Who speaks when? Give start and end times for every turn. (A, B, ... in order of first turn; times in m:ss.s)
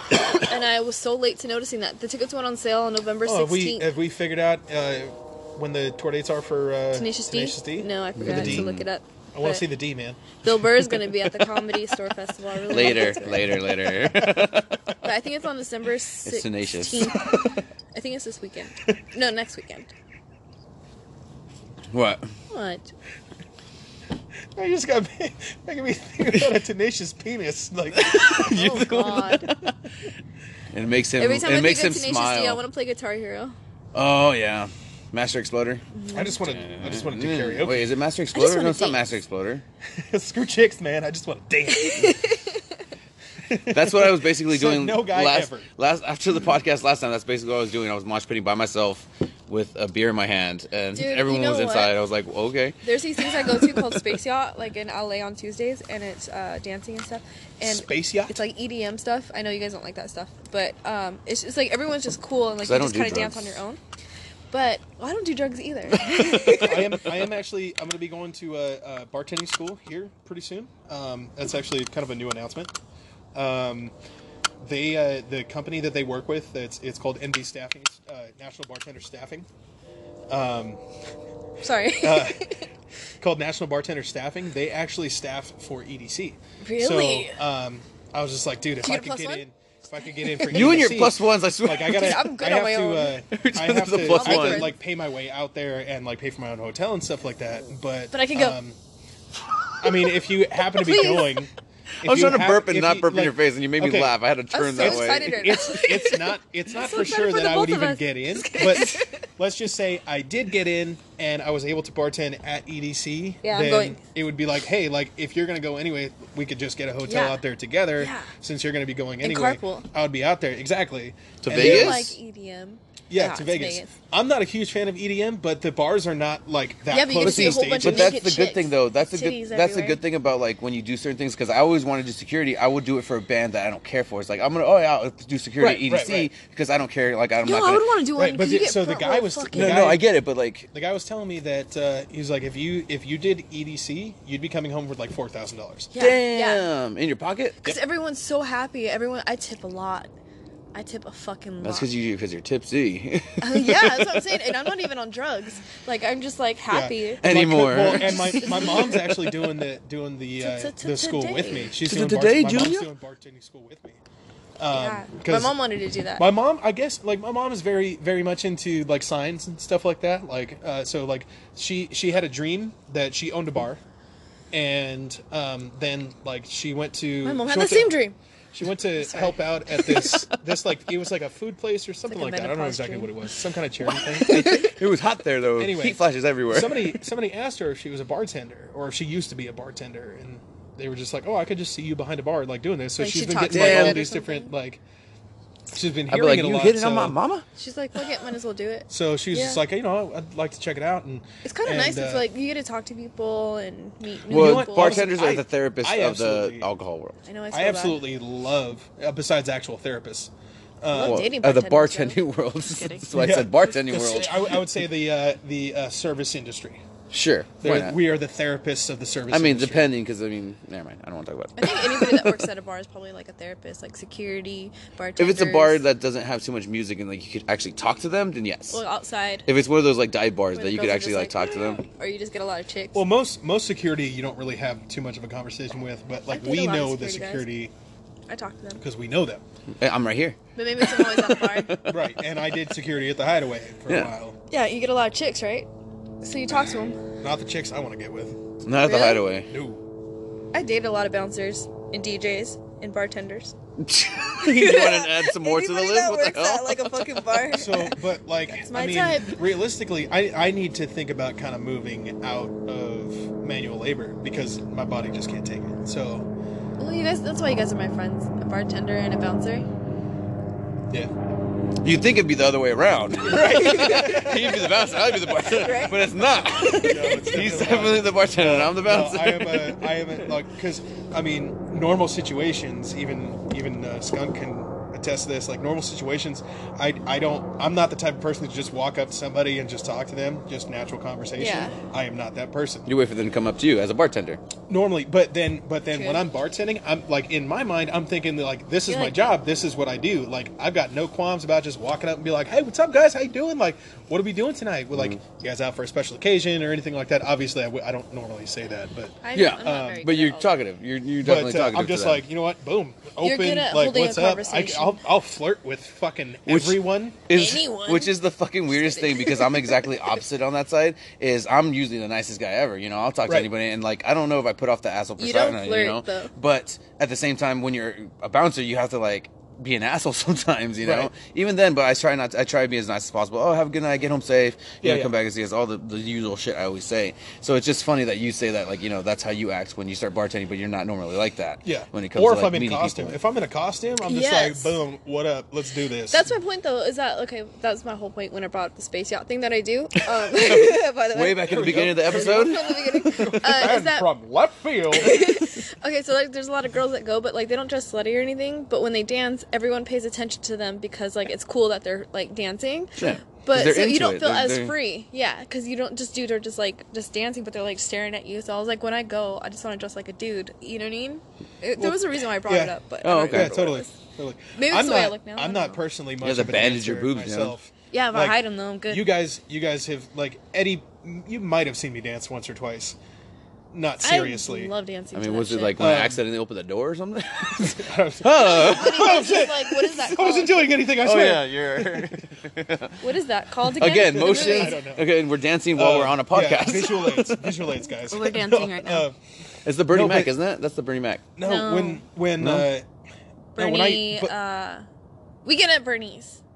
0:00.3-0:03.9 A
0:03.2-0:08.7 B
0:06.9-0:09.7 A
0:08.2-0:08.8 C
0:09.3-0:10.4 B
0:10.4-0:13.5 A
0:12.7-0:14.8 C
0:12.7-0:13.2 B
0:15.0-0:17.4 A
0:16.2-0:17.1 C
0:17.9-0:19.9 A
0:21.9-0:22.3 C
0:22.5-0:22.9 A
0:24.5-0:28.5 B
0:27.9-0:29.8 C
0:28.3-0:29.5 A
0:30.7-0:32.6 C
0:31.2-0:33.6 A
0:33.9-0:35.8 C
0:35.9-0:36.4 A
0:36.1-0:37.9 B
0:36.4-0:39.6 C
0:38.3-0:39.0 A
0:40.0-0:42.3 B
0:41.7-0:42.6 A
0:43.4-0:45.6 B
0:43.7-0:52.8 C
0:50.9-0:51.9 A
0:52.8-1:03.8 A
0:53.3-0:54.0 C
0:57.6-0:58.4 B
1:02.6-1:03.6 C
1:04.5-1:07.0 A
1:06.3-1:06.6 C
1:06.5-1:12.7 B
1:13.3-1:13.9 B
1:14.6-1:19.5 B
1:20.3-1:20.8 B
1:21.6-1:22.7 A
1:22.0-1:22.4 B
1:23.2-1:38.8 B
1:26.6-1:27.4 A
1:28.8-1:29.4 A
1:30.2-1:30.5 A
1:30.5-1:32.2 C
1:31.8-1:33.2 A
1:33.3-1:34.7 C
1:34.0-1:34.7 A
1:38.1-1:38.6 A
1:39.8-1:41.5 B
1:40.7-1:41.4 A
1:42.0-1:44.2 B
1:42.0-1:45.7 C
1:44.5-1:49.2 A
1:44.8-2:02.1 B
1:53.4-1:54.0 A
1:57.0-1:57.4 A
1:58.0-1:58.3 A
1:59.2-1:59.9 A
2:01.4-2:02.1 C
2:01.5-2:03.9 A
2:03.1-2:08.2 B
2:06.9-2:10.0 A
2:07.2-2:17.9 C
2:15.6-2:16.3 B
2:17.4-2:19.9 A
2:18.2-2:20.1 B
2:19.5-2:20.7 C
2:20.7-2:25.9 B
2:25.9-2:26.7 A
2:26.0-2:27.8 C
2:27.6-2:30.1 A
2:30.7-2:31.9 A
2:31.6-2:34.5 C
2:33.4-2:37.2 A
2:36.7-2:44.0 B
2:37.2-2:39.3 C
2:37.8-2:39.0 A
2:40.4-2:41.7 A
2:41.8-2:42.9 C
2:44.6-2:45.6 B
2:44.7-2:46.3 A
2:46.2-2:53.8 B
2:54.5-2:58.0 B
2:57.2-2:58.1 A
2:58.5-3:04.6 B
2:59.0-2:59.3 A
2:59.8-3:00.3 C
3:02.1-3:03.1 A
3:03.9-3:04.8 A
3:04.2-3:07.0 C
3:05.6-3:14.8 B
3:13.0-3:14.5 A
3:13.5-3:14.0 C
3:15.7-3:17.2 B
3:16.1-3:17.4 C
3:17.5-3:19.6 A
3:18.9-3:22.3 B
3:21.4-3:25.0 A
3:24.3-3:26.7 B
3:24.3-3:27.2 C
3:27.2-3:28.0 A
3:27.5-3:31.3 B
3:30.9-3:33.1 A
3:31.0-3:34.6 C
3:33.1-3:36.8 B
3:37.1-3:38.0 C
3:37.6-3:39.9 B
3:39.3-3:42.4 C
3:41.6-3:45.8 A
3:45.2-3:48.8 C
3:48.7-3:49.5 A
3:49.4-3:51.8 C
3:50.5-3:53.0 A
3:52.9-3:57.7 B
3:56.3-3:57.5 A
3:58.3-3:58.8 A
3:58.8-3:59.4 B
3:59.8-4:02.0 C
4:00.6-4:01.8 A
4:01.8-4:04.4 B
4:04.5-4:05.7 A
4:06.2-4:07.0 A
4:07.2-4:08.4 B
4:08.6-4:09.5 C
4:08.8-4:09.3 A
4:09.5-4:09.8 B
4:10.5-4:13.5 A
4:13.8-4:17.4 C
4:14.4-4:18.0 A
4:17.5-4:26.3 B
4:18.5-4:19.4 A
4:26.8-4:29.7 A
4:31.8-4:40.3 C
4:33.2-4:34.7 B
4:33.5-4:34.4 A
4:35.3-4:36.0 A
4:36.7-4:52.9 B
4:51.4-4:51.8 A
4:52.9-4:54.4 C
4:54.7-5:10.1 B
4:55.9-4:56.2 A
4:58.9-4:59.2 A
5:04.9-5:05.2 C
5:09.2-5:10.5 A
5:09.3-5:12.2 C
5:11.2-5:17.2 B
5:13.2-5:15.0 A
5:16.4-5:43.2 C
5:17.3-5:18.1 A
5:18.7-5:19.9 A
5:23.2-5:23.5 B
5:25.2-5:26.3 A
5:30.8-5:31.1 B
5:34.8-5:35.1 B
5:41.6-5:46.2 B
5:44.0-5:44.8 A
5:46.1-5:54.1 A
5:50.3-5:53.4 C
5:51.4-5:55.2 B
5:54.9-6:13.9 A
6:03.0-6:04.7 C
6:11.8-6:23.0 B
6:13.0-6:13.5 C
6:14.5-6:15.8 A
6:16.2-6:17.5 C
6:17.9-6:19.1 A
6:23.7-6:24.7 B
6:24.0-6:25.8 A
6:25.1-6:29.2 C
6:25.8-6:26.2 B
6:27.6-6:32.2 B
6:28.4-6:30.7 A
6:31.0-6:33.0 C
6:33.0-6:34.8 A
6:33.7-6:37.6 C
6:33.8-6:35.1 B
6:35.7-6:39.2 B
6:38.0-6:39.0 A
6:39.6-6:41.2 C
6:39.9-6:40.3 B
6:41.4-6:42.9 B
6:41.4-6:42.0 A
6:42.4-6:42.7 C
6:43.6-6:44.8 A
6:43.6-6:44.3 B
6:45.4-6:46.4 A